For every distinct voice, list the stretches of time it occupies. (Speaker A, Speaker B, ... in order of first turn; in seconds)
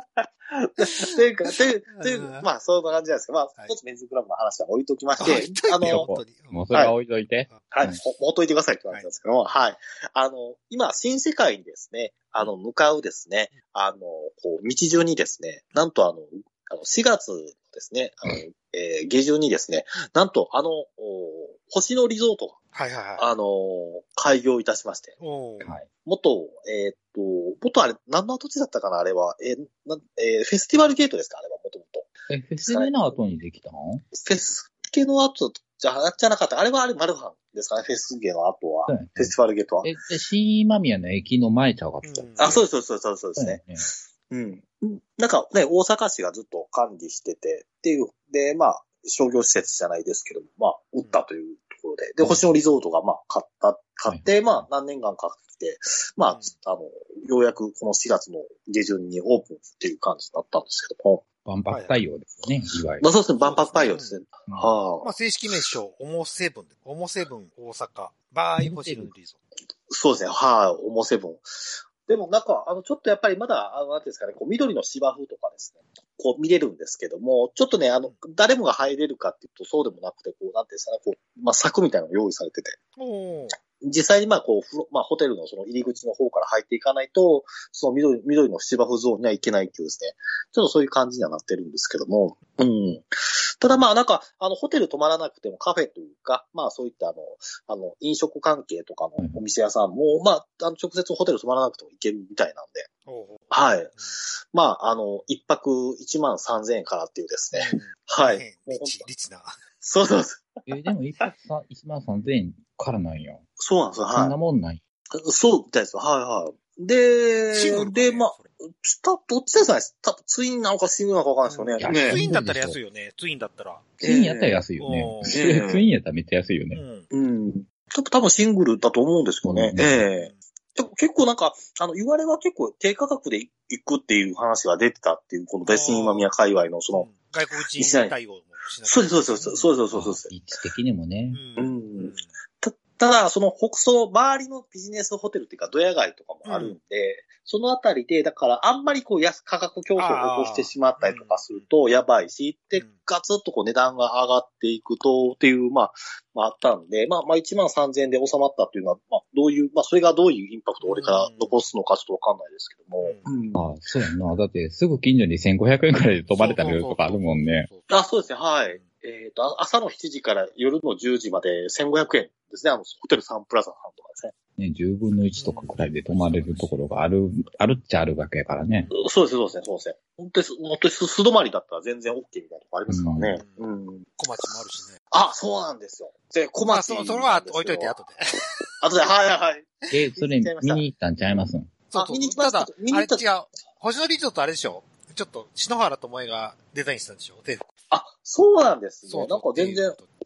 Speaker A: 0.2-6.0, 7.7-22.6, 23.2-25.2, 26.0-32.1, 32.6-32.9, 34.1-39.9, 42.4-61.2, 63.0-65.1, 69.9-82.8, 83.8-102.9, 103.5-109.1, 109.8-110.5, 113.6-114.3, 115.2-122.2, 124.0-124.6, 125.2-125.8, 127.1-137.1, 137.8-138.2, 138.8-140.3, 141.6-163.7, 167.9-174.3, 178.9-184.1, 185.1-187.9, 188.8-190.8, 191.9-193.2, 197.9-200.0
Speaker B: 2.0-2.4, 5.2-6.6, 22.7-23.3, 25.2-25.7, 42.0-42.6, 56.2-56.5, 61.7-62.0, 63.4-64.2, 65.0-69.4, 83.0-83.5, 103.0-104.1, 107.5-109.6, 117.5-118.5, 121.5-124.0, 124.8-125.4, 126.7-127.1, 135.7-136.3, 136.9-139.8, 141.3-142.3, 146.4-146.8, 150.0-151.7, 160.8-161.6, 163.0-163.3, 166.3-168.1, 175.4-176.9, 183.3-185.0, 186.7-188.6, 191.9-197.7, 199.1-200.1
Speaker C: 5.8-8.0, 25.6-25.9, 32.3-34.0, 38.9-42.7, 43.4-43.9, 52.2-52.5, 54.1-54.6, 61.4-63.1, 68.6-69.1, 110.7-113.4, 114.1-114.8, 121.8-122.8, 124.0-126.8, 129.4-130.0, 139.9-141.4, 163.5-167.7, 174.6-178.9, 182.9-183.4, 189.9-191.7